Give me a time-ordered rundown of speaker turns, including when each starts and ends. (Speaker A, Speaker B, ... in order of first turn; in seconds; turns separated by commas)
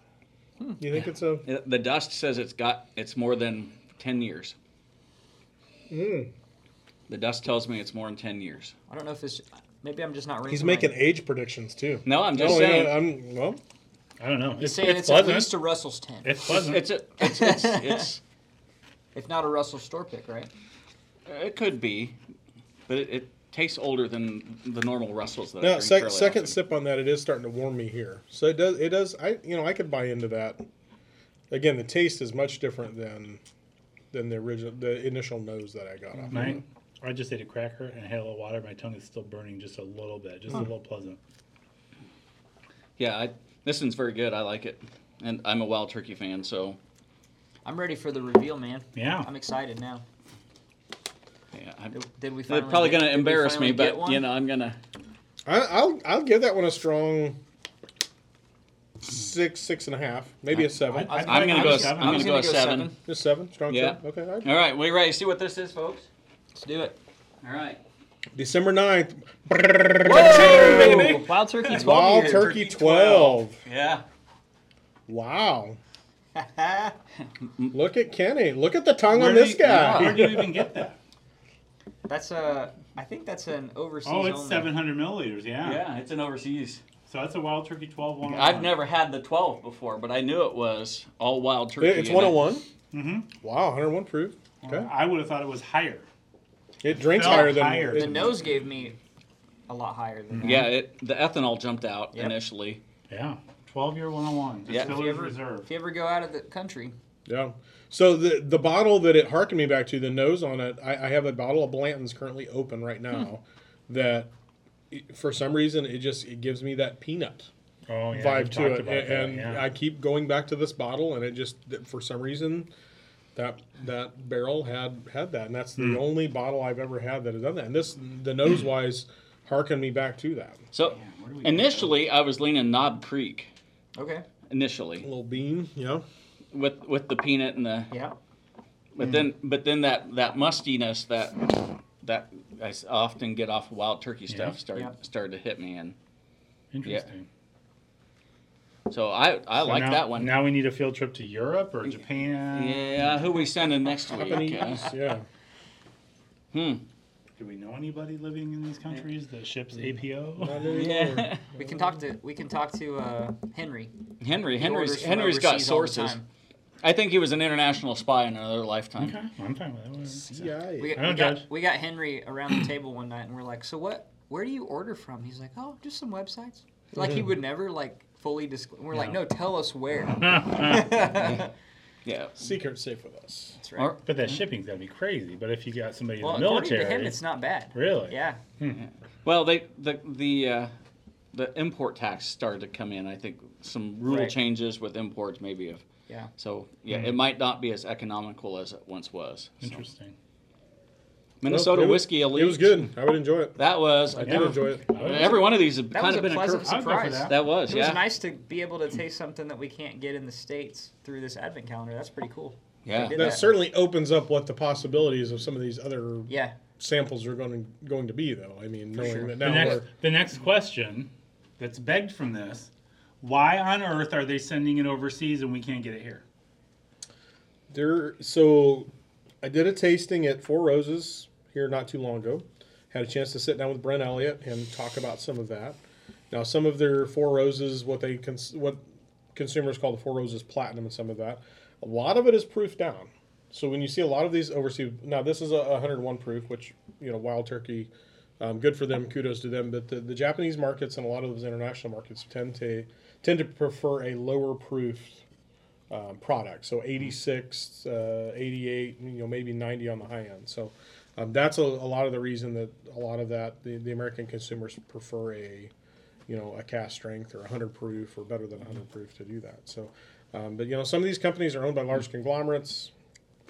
Speaker A: 0.8-1.4, Speaker B: 1.4-4.5, Speaker A: 5.9-6.3, Speaker B: 7.1-8.7, Speaker C: 8.9-11.0, Speaker A: 10.5-13.6, Speaker B: 12.0-13.0, Speaker D: 14.2-15.5, Speaker C: 14.6-18.1, Speaker D: 16.2-16.9, Speaker B: 16.4-18.2, Speaker C: 19.1-20.5, Speaker B: 21.3-22.2, Speaker B: 22.9-26.6, Speaker A: 25.6-30.6, Speaker A: 31.5-33.4, Speaker A: 34.1-36.6, Speaker D: 36.3-41.2, Speaker B: 43.0-46.8, Speaker C: 47.6-50.0, Speaker D: 48.9-49.3, Speaker B: 51.5-52.0, Speaker C: 51.9-54.3, Speaker B: 52.5-54.8, Speaker A: 55.5-57.4, Speaker A: 59.0-61.3, Speaker D: 60.8-62.4, Speaker C: 61.1-63.0, Speaker B: 61.2-62.9, Speaker A: 63.0-64.5, Speaker B: 63.7-66.1, Speaker C: 66.5-67.0, Speaker B: 67.4-67.8, Speaker A: 68.3-71.1, Speaker B: 70.0-74.0, Speaker C: 70.1-72.9, Speaker A: 71.7-73.6, Speaker A: 75.1-75.8, Speaker C: 76.3-76.9, Speaker B: 77.4-77.8, Speaker A: 77.7-80.7, Speaker D: 79.1-81.0, Speaker B: 79.6-80.2, Speaker C: 82.1-84.8, Speaker D: 84.0-85.8, Speaker B: 85.6-86.8, Speaker D: 87.1-88.8, Speaker B: 88.2-92.5, Speaker A: 91.8-92.7, Speaker D: 92.9-93.3, Speaker A: 93.4-94.9, Speaker D: 94.6-96.0, Speaker A: 96.8-98.3, Speaker D: 97.0-98.3, Speaker C: 97.9-99.0, Speaker C: 99.7-100.7, Speaker B: 100.4-102.8, Speaker C: 102.1-102.4, Speaker D: 103.1-105.7, Speaker B: 104.7-105.0, Speaker C: 104.7-106.9, Speaker A: 107.3-114.3, Speaker A: 114.9-117.5, Speaker D: 117.9-119.7, Speaker A: 118.1-122.7, Speaker A: 123.3-130.6, Speaker D: 125.8-126.0, Speaker B: 130.7-133.5, Speaker D: 130.9-132.1, Speaker C: 133.9-134.2, Speaker B: 134.5-135.1, Speaker A: 135.0-136.0, Speaker B: 136.5-137.9, Speaker C: 137.9-138.2, Speaker B: 138.9-145.9, Speaker D: 144.3-144.6, Speaker D: 146.7-147.3, Speaker B: 148.9-150.4, Speaker D: 149.6-153.1, Speaker B: 152.5-154.9, Speaker A: 154.1-155.2, Speaker C: 154.4-154.7, Speaker B: 156.5-156.8, Speaker D: 157.4-160.6, Speaker A: 160.4-161.9, Speaker B: 160.7-161.4, Speaker C: 161.6-163.9, Speaker B: 164.2-166.2, Speaker C: 164.5-166.2, Speaker B: 166.8-169.2, Speaker D: 169.0-171.5, Speaker A: 170.2-171.0, Speaker C: 170.8-181.5, Speaker D: 178.9-179.2, Speaker D: 180.2-181.0, Speaker B: 181.1-181.4, Speaker B: 182.0-182.6, Speaker A: 182.4-183.6, Speaker C: 183.6-183.9, Speaker B: 183.8-184.0, Speaker D: 184.0-187.2, Speaker C: 186.2-188.4, Speaker D: 187.7-188.8, Speaker B: 188.7-190.7, Speaker B: 191.3-195.8, Speaker C: 194.0-194.3, Speaker B: 196.4-199.8, Speaker D: 199.6-200.1, Speaker B: 201.4-202.9, Speaker A: 201.5-203.6, Speaker B: 203.6-208.0, Speaker A: 204.1-204.9, Speaker D: 204.2-205.5, Speaker C: 205.9-213.6, Speaker D: 206.6-207.4, Speaker B: 212.8-213.3, Speaker A: 213.1-219.8, Speaker C: 216.3-216.6, Speaker C: 218.9-219.8, Speaker D: 219.4-222.7, Speaker D: 223.2-226.2, Speaker A: 227.7-228.9, Speaker A: 229.4-235.8, Speaker A: 236.3-238.8, Speaker A: 239.3-255.2, Speaker A: 255.9-265.7, Speaker A: 266.3-272.9